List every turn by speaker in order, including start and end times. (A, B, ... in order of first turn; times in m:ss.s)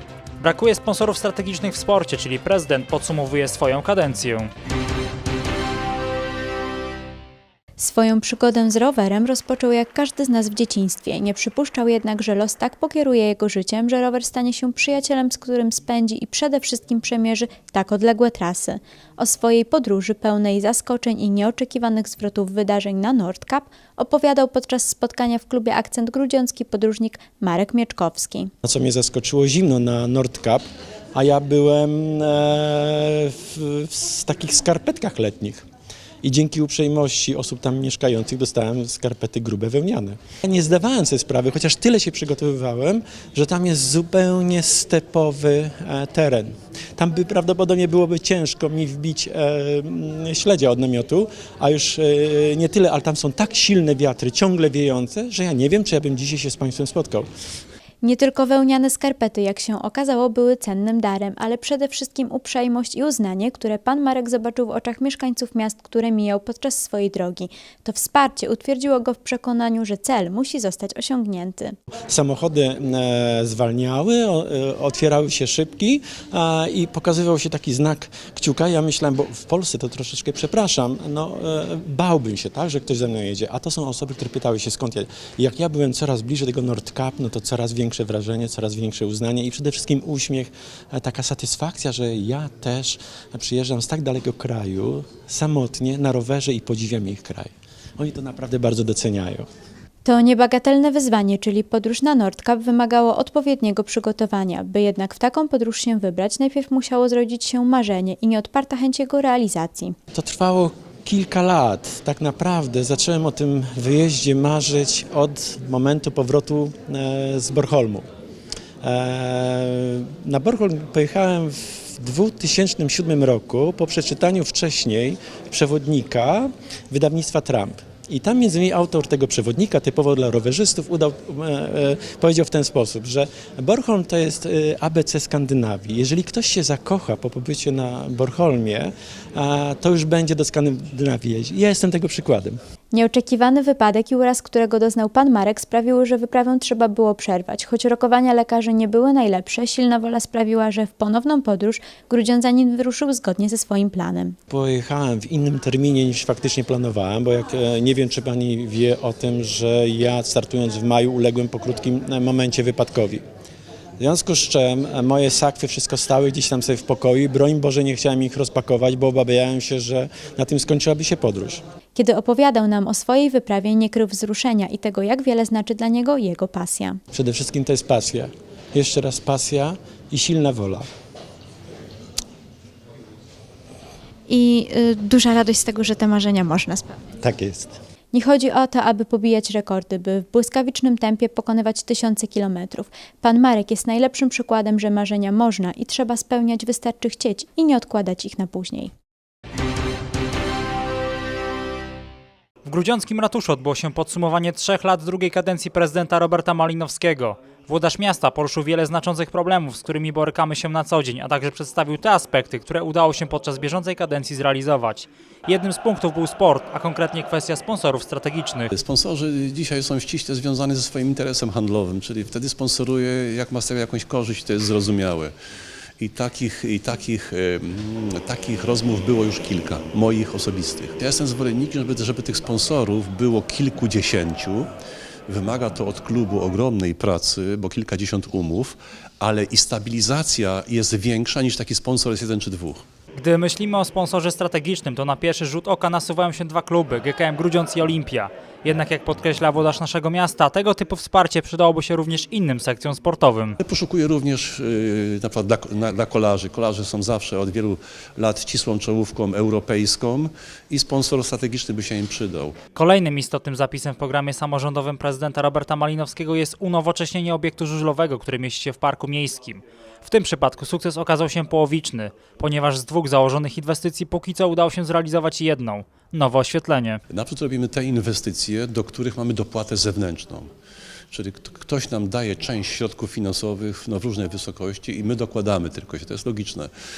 0:00.4-0:04.5 A
0:07.8-0:28.5 B
0:28.6-0:35.6 C
0:36.2-0:57.3 C
0:58.0-1:11.7 B
1:12.1-1:39.5 C
1:40.0-1:49.9 B
1:50.1-1:58.0 C
1:58.8-2:22.6 C
2:22.9-2:34.4 B
2:34.5-2:43.2 C
2:44.0-2:51.6 C
2:52.0-2:57.0 B
2:57.1-3:00.9 C
3:04.3-3:07.0 B
3:07.2-3:07.8 C
3:08.1-3:18.9 B
3:22.6-3:38.7 A
3:38.7-3:45.3 D
3:46.0-3:54.7 D
3:55.3-4:02.8 D
4:03.2-4:13.6 A
4:13.6-4:22.6 D
4:22.7-4:37.0 A
4:37.1-4:40.5 D
4:41.1-4:46.7 D